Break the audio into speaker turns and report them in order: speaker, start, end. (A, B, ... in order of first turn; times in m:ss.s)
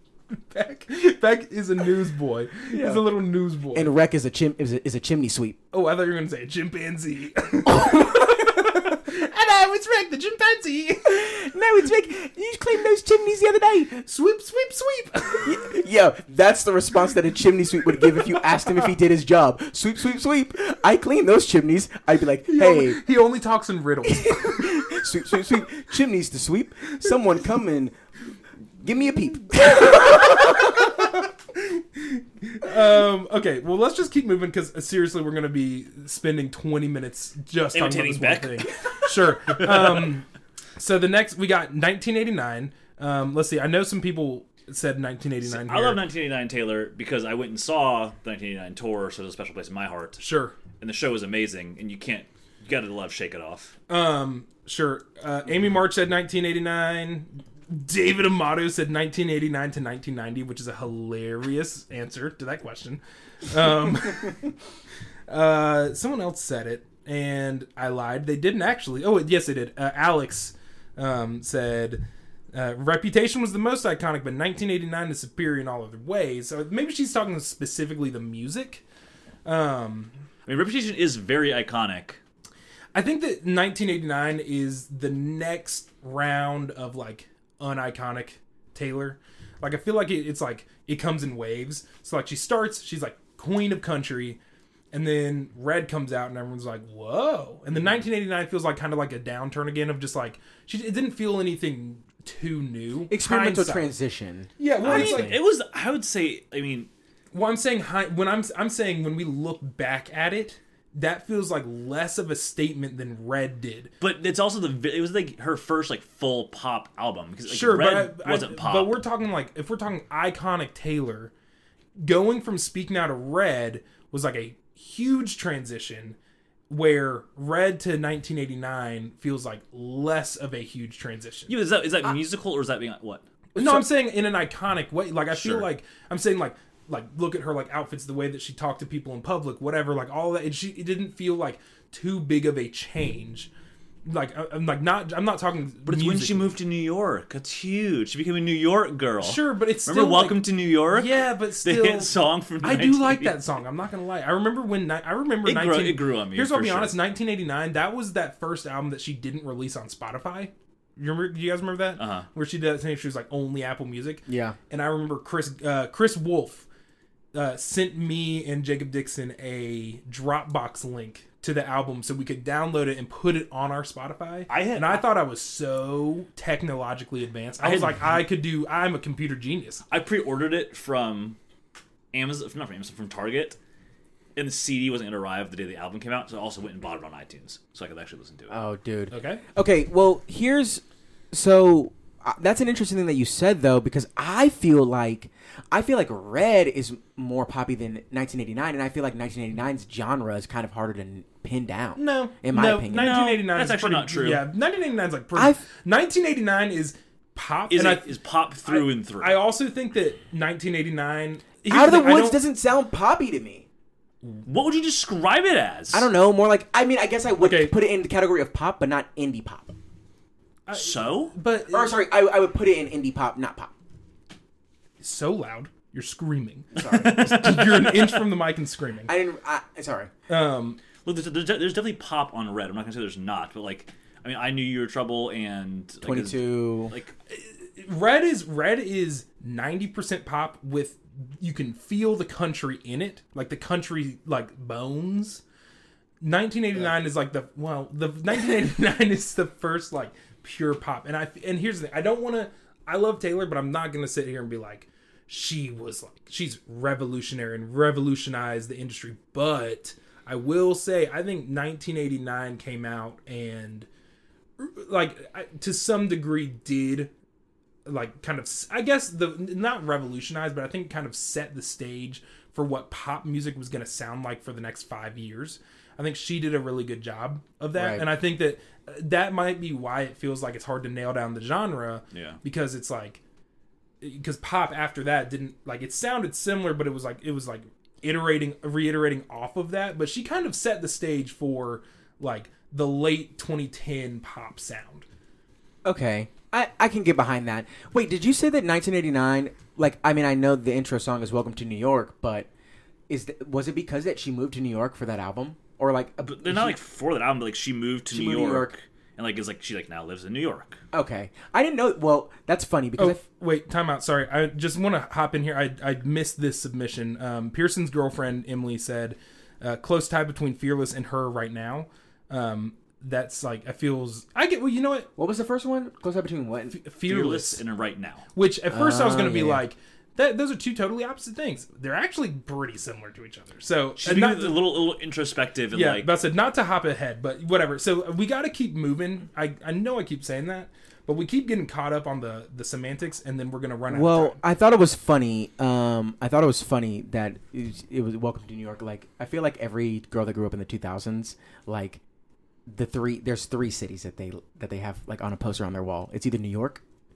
0:00.3-0:03.9 A
0:02.7-0:03.0 B
0:03.7-0:05.6 B
0:05.7-0:11.3 A
0:07.7-0:08.8 B
0:11.0-0:14.0 B
0:14.0-0:15.6 A
0:15.4-0:23.0 B
0:22.4-0:25.1 A
0:24.0-0:27.9 B
0:28.8-0:31.0 B
0:29.7-0:46.0 A
0:37.7-0:40.1 C
0:45.4-0:50.2 C
0:50.2-0:50.5 A
0:50.8-0:53.8 C
0:53.9-1:04.5 A
1:05.3-1:18.8 A
1:19.4-1:20.1 A
1:20.4-1:22.2 C
1:22.9-1:34.4 A
1:34.9-1:43.9 A
1:43.1-1:45.4 B
1:44.6-1:45.4 A
1:44.8-1:46.9 C
1:47.3-1:53.9 A
1:54.0-1:59.0 C
1:57.5-2:01.3 A
2:02.0-2:06.2 A
2:06.7-2:11.5 A
2:11.5-2:13.2 C
2:13.6-2:13.8 B
2:13.6-2:23.5 A
2:15.3-2:15.6 C
2:24.0-2:26.5 A
2:25.8-2:33.4 C
2:29.2-2:46.7 A
2:35.4-2:37.0 C
2:42.0-2:42.3 C
2:44.3-2:44.6 B
2:47.3-2:59.8 A
2:54.5-2:55.1 C
2:57.6-2:58.1 C
2:59.9-3:01.4 C
3:02.1-3:03.6 C
3:04.4-3:08.6 C
3:08.5-3:23.2 B
3:09.1-3:09.4 A
3:22.0-3:28.1 A
3:22.9-3:24.4 C
3:25.3-3:25.6 B
3:27.7-3:29.4 C
3:28.6-3:32.4 A
3:31.7-3:33.6 B
3:34.4-3:36.1 C
3:35.9-3:39.7 B
3:37.4-3:37.7 A
3:40.7-3:41.9 A
3:40.7-3:41.3 C
3:41.7-3:43.7 B
3:45.0-3:49.1 A
3:46.7-3:47.3 B
3:46.8-3:48.2 C
3:49.1-3:50.1 B
3:50.3-3:50.8 A
3:51.0-3:57.1 C
3:56.0-3:56.9 B
3:57.3-4:05.4 A
4:06.2-4:23.9 A
4:24.6-4:27.1 A
4:27.8-4:43.2 A
4:37.7-4:38.0 B
4:42.1-4:42.4 C
4:44.0-4:55.0 A
4:55.8-5:02.5 B
5:03.1-5:06.8 B
5:06.2-5:10.8 C
5:08.1-5:08.7 B
5:10.9-5:13.2 B
5:13.0-5:25.1 A
5:25.2-5:26.8 B
5:26.7-5:27.6 A
5:27.0-5:28.3 C
5:28.3-5:34.6 A
5:28.7-5:29.6 B
5:34.0-5:36.1 C
5:35.7-5:44.4 A
5:43.9-5:52.0 B
5:52.7-5:56.8 B